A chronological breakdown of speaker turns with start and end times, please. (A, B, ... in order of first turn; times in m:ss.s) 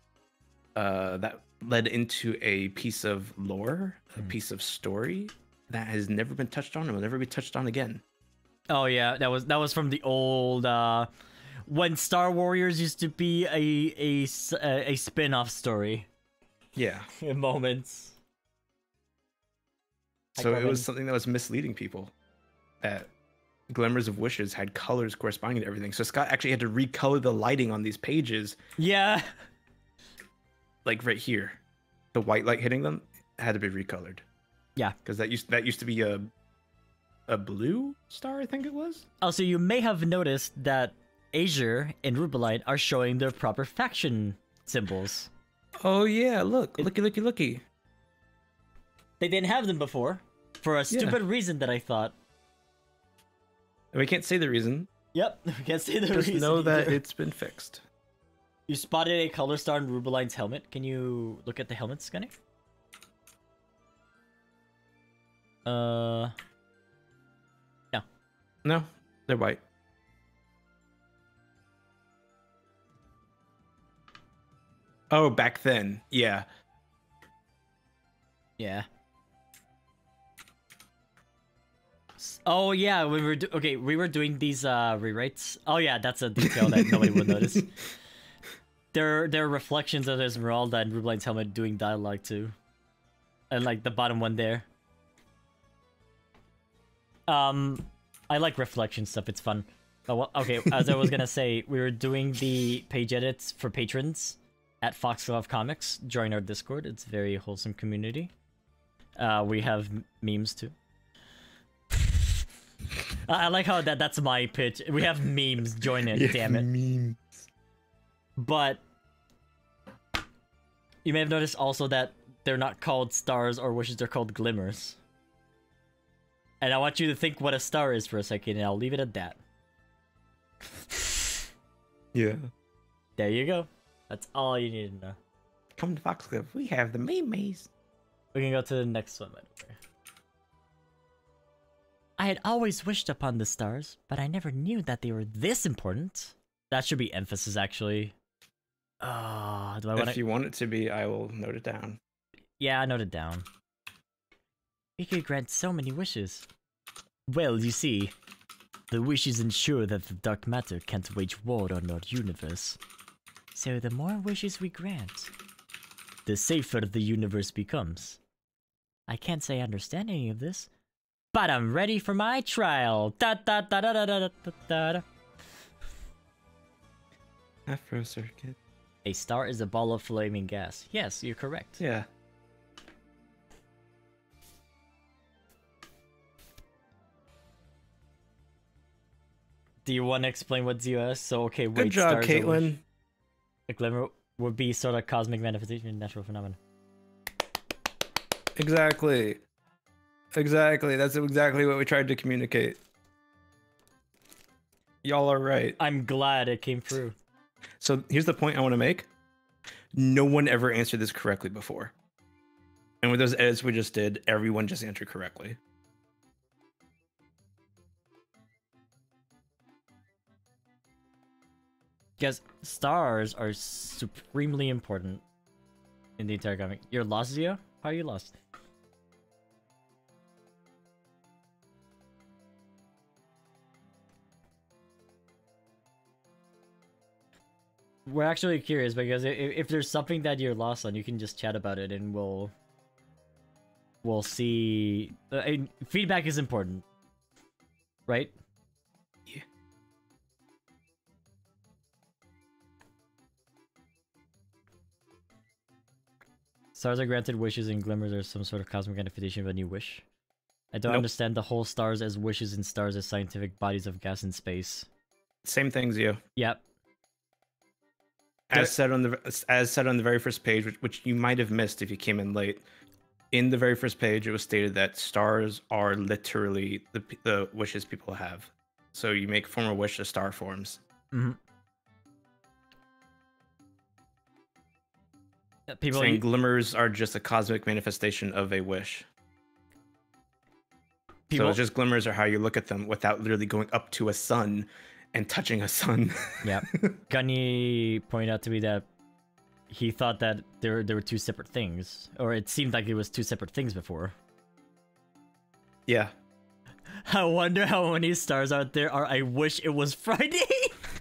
0:00.8-0:08.0 A
0:08.7-0:11.1 B
0:11.6-0:16.1 B
0:16.8-0:17.1 A
0:17.2-0:18.2 B
0:20.4-0:22.1 A
0:20.4-0:20.9 B
0:22.8-0:23.1 A
0:23.7-0:28.6 A
0:28.8-0:29.3 B
0:30.8-0:31.6 A
0:32.1-0:34.2 A
0:35.0-0:36.3 A
0:37.3-0:39.1 A
0:39.2-0:45.3 B
0:45.8-0:47.6 A
0:49.2-0:52.1 B
0:50.9-0:51.2 A
0:53.9-0:54.9 A
0:55.1-0:57.0 B
0:56.1-0:57.8 A
0:58.7-1:02.3 B
1:05.7-1:06.3 B
1:08.6-1:09.6 A
1:15.1-1:16.5 A
1:18.6-1:18.9 B
1:22.2-1:27.7 B
1:26.4-1:27.6 A
1:28.9-1:32.6 B
1:33.5-1:34.7 B
1:37.3-1:48.3 B
1:49.2-1:50.7 B
1:52.0-1:52.3 B
1:53.2-1:56.7 B
1:56.0-1:57.5 A
1:58.4-1:58.8 B
2:01.0-2:05.0 B
2:06.6-2:09.4 B
2:10.7-2:11.4 B
2:12.1-2:12.5 A
2:13.2-2:15.2 B
2:15.8-2:17.7 A
2:18.3-2:19.8 B
2:22.2-2:28.2 B
2:29.0-2:30.2 B
2:30.0-2:32.0 A
2:32.6-2:33.4 B
2:35.0-2:36.5 B
2:37.3-2:38.1 B
2:38.9-2:42.8 B
2:43.5-2:45.3 B
2:46.3-2:48.2 B
2:49.1-2:50.7 B
2:51.3-2:55.0 B
2:57.7-2:58.6 A
2:59.0-3:01.8 B
3:01.8-3:02.1 A
3:09.8-3:12.7 B
3:11.8-3:12.8 A
3:13.7-3:16.6 B
3:18.6-3:19.4 A
3:20.3-3:22.8 A
3:25.0-3:25.8 A
3:25.8-3:27.2 B
3:27.8-3:29.1 A
3:29.9-3:31.9 A
3:33.0-3:35.6 A
3:42.2-3:45.2 B
3:46.2-3:48.4 B
3:58.1-4:02.5 B
4:04.0-4:06.8 B
4:08.1-4:08.3 B
4:16.8-4:20.0 B
4:20.7-4:24.9 B
4:25.4-4:26.2 A
4:26.4-4:26.6 B
4:28.5-4:32.7 A
4:33.3-4:40.8 A
4:41.1-4:41.4 B
4:45.7-4:46.2 B
4:45.9-4:49.1 A
4:51.3-4:51.6 B
4:51.3-4:57.0 A
4:56.4-4:58.8 B
4:59.7-5:04.2 B
5:05.9-5:06.2 A
5:07.0-5:10.7 B